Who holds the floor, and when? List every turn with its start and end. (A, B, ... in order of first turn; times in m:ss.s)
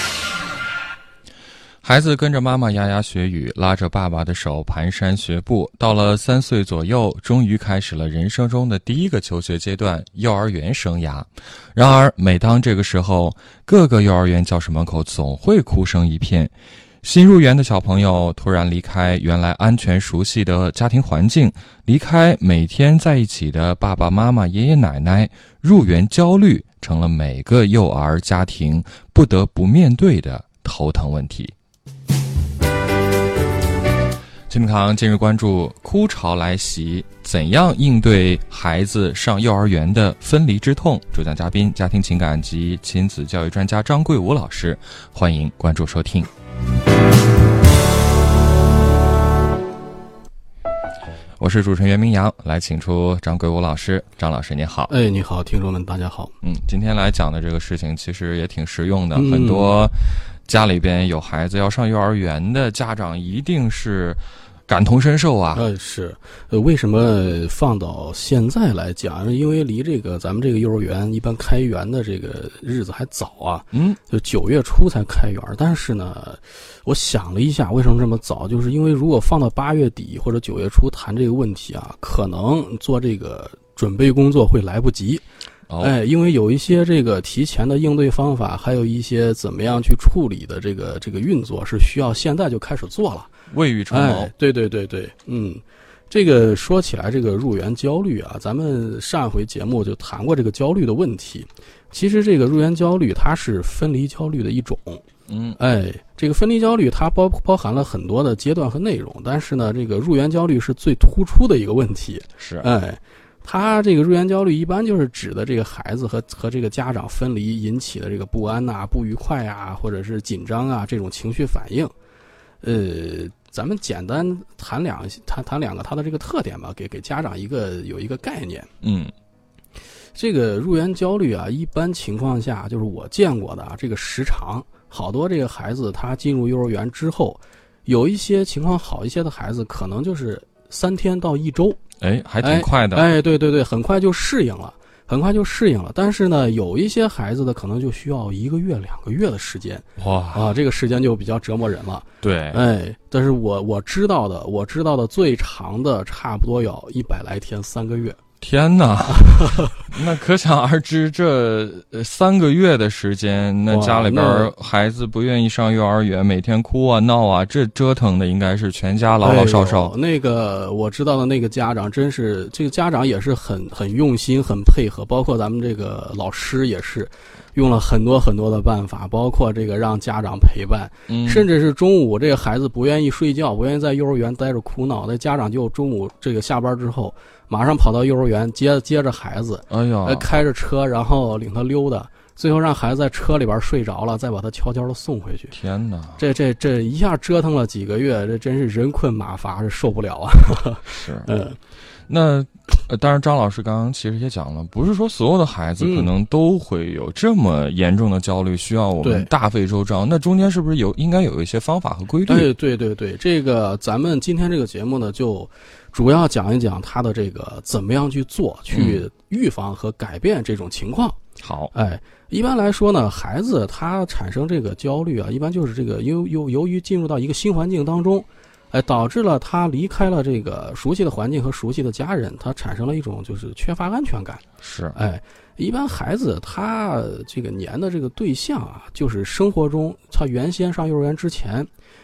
0:01.8-0:31.5 A
0:34.5-0:46.3 A
0:51.4-0:54.9 A
0:54.9-0:56.3 B
0:56.4-1:05.6 A
0:59.1-0:59.8 B
1:05.5-1:25.2 B
1:13.7-1:14.0 A
1:25.7-1:25.9 A
1:25.8-1:33.3 B
1:33.5-1:34.3 A
1:33.9-1:45.0 B
1:45.3-1:45.6 A
1:45.6-2:01.9 B
1:52.4-1:52.7 A
2:02.6-2:08.7 B
2:08.8-2:09.1 A
2:10.1-2:21.8 B
2:22.0-2:23.0 A
2:22.4-2:38.2 B
2:30.0-2:30.5 A
2:32.2-2:32.6 A
2:38.4-2:49.9 A
2:39.1-2:39.8 B
2:43.7-2:44.5 B
2:49.2-3:15.5 B
3:01.1-3:01.5 A
3:09.7-3:10.3 A
3:15.5-3:16.2 A
3:16.2-3:21.6 B
3:20.9-3:21.3 A
3:22.1-3:32.5 A
3:25.8-3:26.1 B
3:29.0-3:29.3 B
3:32.3-3:41.2 B
3:38.7-3:39.0 A
3:41.4-3:41.7 A
3:41.7-3:54.4 B
3:54.6-3:55.0 A
3:54.9-4:01.7 B